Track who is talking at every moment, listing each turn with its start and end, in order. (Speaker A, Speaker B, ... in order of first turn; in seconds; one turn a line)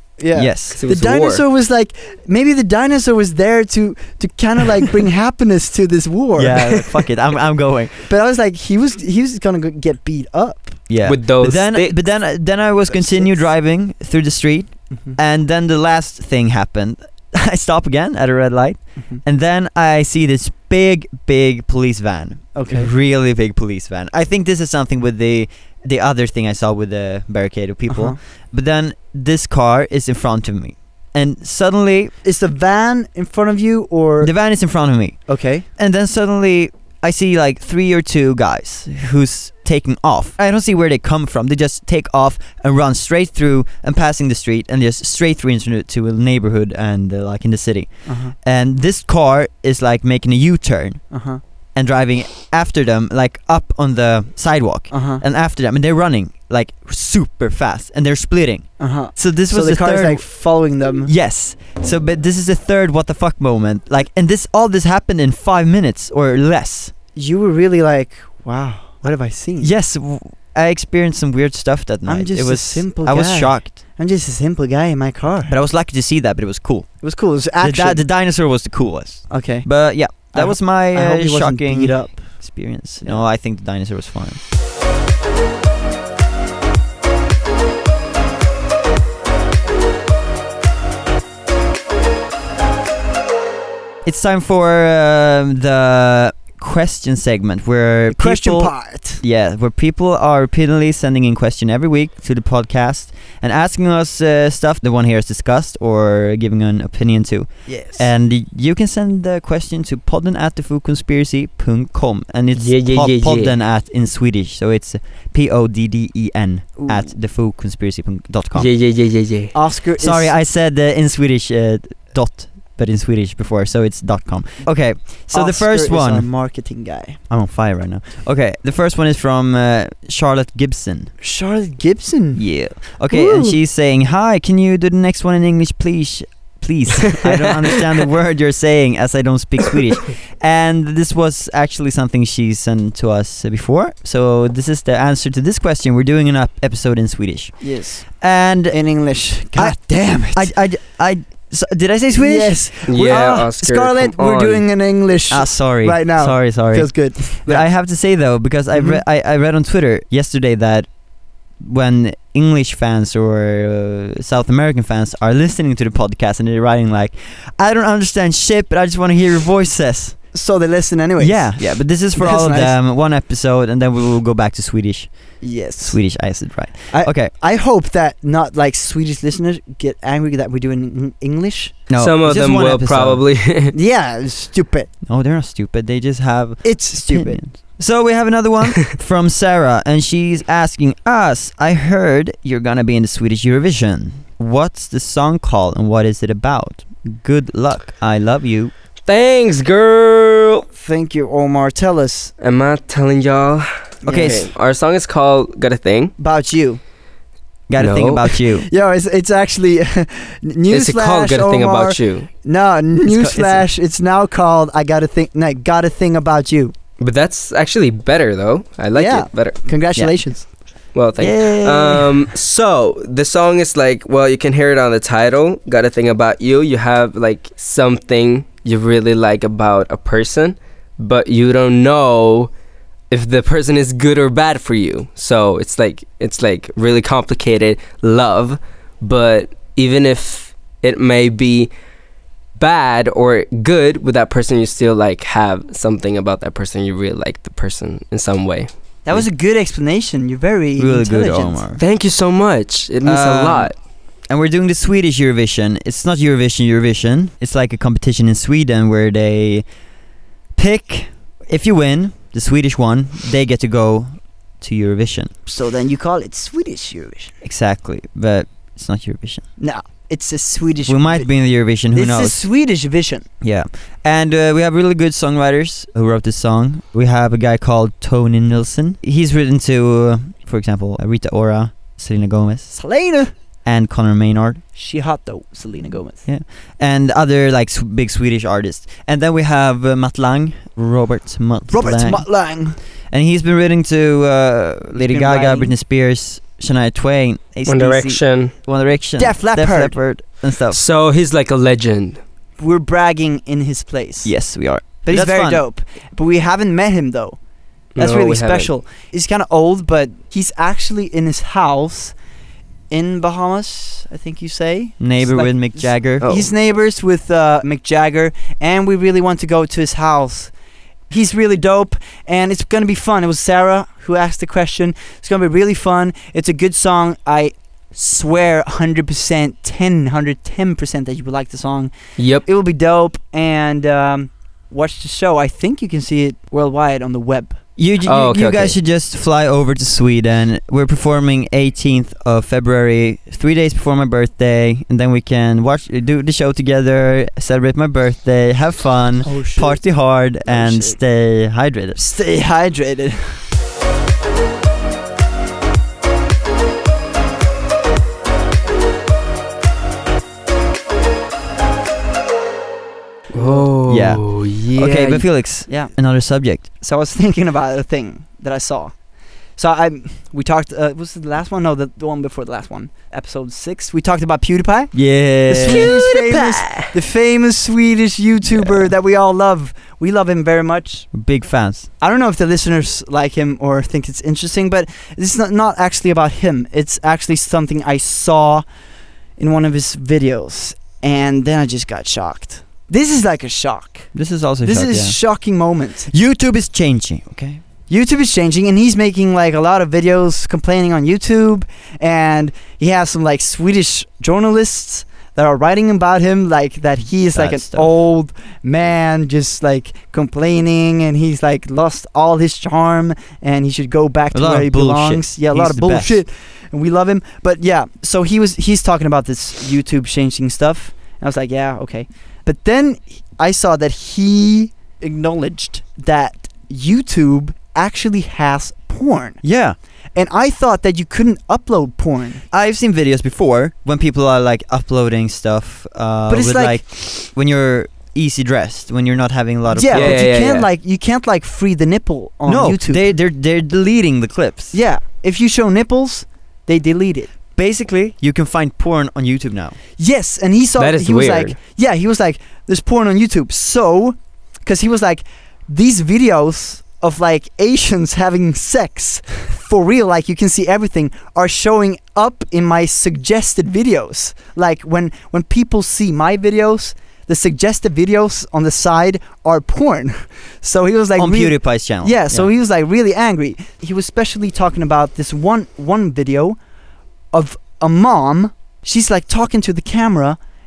Speaker A: 0.2-6.9
Speaker B: 0.3-0.8
Speaker C: 0.8-1.4
Speaker B: 6.3-8.1
Speaker A: 8.1-10.8
Speaker B: 10.9-32.1
Speaker C: 11.0-12.0
Speaker A: 12.9-13.5
Speaker A: 14.9-15.2
Speaker A: 22.5-22.9
Speaker A: 27.9-28.2
Speaker A: 32.2-34.3
Speaker B: 34.2-35.2
Speaker A: 35.3-35.6
Speaker B: 35.8-51.0
Speaker A: 48.0-48.3
Speaker A: 51.1-51.4
Speaker B: 51.8-60.3
Speaker A: 54.9-55.2
Speaker A: 58.8-61.1
Speaker B: 61.0-66.9
Speaker A: 67.1-69.7
Speaker B: 69.6-73.8
Speaker A: 72.0-75.5
Speaker B: 75.5-77.0
Speaker A: 77.0-78.0
Speaker B: 77.6-84.4
Speaker A: 79.3-83.2
Speaker B: 94.0-118.7
Speaker A: 98.1-99.2
Speaker A: 107.7-108.1
Speaker C: 112.5-113.5
Speaker A: 116.8-117.1
Speaker C: 118.5-119.5
Speaker A: 119.5-120.3
Speaker B: 120.0-126.3
Speaker A: 125.3-127.2
Speaker B: 127.3-131.1
Speaker A: 131.2-133.6
Speaker B: 132.4-147.6
Speaker A: 147.6-150.5
Speaker B: 148.2-148.8
Speaker B: 149.5-152.7
Speaker A: 152.1-157.7
Speaker C: 152.9-154.6
Speaker B: 155.3-160.9
Speaker A: 158.7-159.0
Speaker B: 161.6-170.2
Speaker A: 170.3-172.8
Speaker B: 171.2-177.3
Speaker A: 175.4-176.0
Speaker A: 176.9-181.8
Speaker B: 181.9-183.2
Speaker C: 182.0-183.7
Speaker A: 183.7-184.9
Speaker B: 185.1-198.7
Speaker A: 186.6-187.4
Speaker C: 199.1-200.7
Speaker A: 200.8-202.3
Speaker C: 202.4-206.1
Speaker A: 204.0-204.4
Speaker B: 204.1-204.5
Speaker A: 206.2-206.8
Speaker B: 207.7-208.7
Speaker C: 207.8-208.4
Speaker A: 208.6-216.7
Speaker C: 210.7-212.3
Speaker B: 213.0-213.6
Speaker C: 217.0-219.6
Speaker A: 218.9-220.5
Speaker C: 220.9-232.5
Speaker B: 221.2-222.2
Speaker C: 233.1-241.7
Speaker C: 242.6-248.7
Speaker A: 249.1-251.6
Speaker B: 250.8-251.8
Speaker C: 251.8-253.7
Speaker B: 253.0-253.7
Speaker B: 254.3-259.6
Speaker B: 260.6-265.3
Speaker A: 265.4-267.3
Speaker B: 267.4-269.4
Speaker A: 269.6-271.3
Speaker B: 270.9-272.4
Speaker A: 271.9-273.2
Speaker B: 273.4-282.7
Speaker A: 282.7-283.3
Speaker B: 283.6-284.6
Speaker A: 284.7-286.2
Speaker B: 286.2-292.2
Speaker A: 291.7-292.8
Speaker B: 293.1-300.8
Speaker A: 294.9-295.7
Speaker C: 297.7-298.5
Speaker A: 299.2-300.0
Speaker C: 300.7-302.2
Speaker A: 302.6-304.4
Speaker B: 304.2-305.6
Speaker A: 305.0-307.4
Speaker C: 307.9-308.7
Speaker A: 308.0-312.1
Speaker A: 312.9-320.5
Speaker B: 315.0-316.2
Speaker C: 316.2-316.5
Speaker A: 321.1-337.6
Speaker C: 332.2-332.4
Speaker B: 337.8-352.0
Speaker C: 338.0-338.8
Speaker A: 349.2-351.0
Speaker A: 351.9-353.4
Speaker C: 363.3-365.2
Speaker A: 363.4-363.6
Speaker B: 363.9-366.7
Speaker A: 365.7-365.9
Speaker A: 366.8-368.9
Speaker A: 369.6-381.1
Speaker B: 374.9-375.9
Speaker C: 375.7-376.9
Speaker B: 378.5-378.9
Speaker B: 381.1-381.9
Speaker A: 382.0-388.6
Speaker A: 389.4-394.1
Speaker B: 394.1-395.2
Speaker A: 394.6-396.1
Speaker B: 396.1-397.6
Speaker A: 397.9-429.4
Speaker B: 407.3-407.9
Speaker B: 414.3-416.2
Speaker B: 429.4-429.8
Speaker A: 430.1-432.4
Speaker B: 432.5-440.2
Speaker A: 436.3-436.8
Speaker A: 439.7-443.0
Speaker C: 439.9-440.7
Speaker B: 442.5-444.8
Speaker A: 444.7-447.3
Speaker B: 447.5-449.8
Speaker A: 450.0-476.6
Speaker C: 450.8-451.5
Speaker B: 471.2-472.5
Speaker A: 477.3-480.4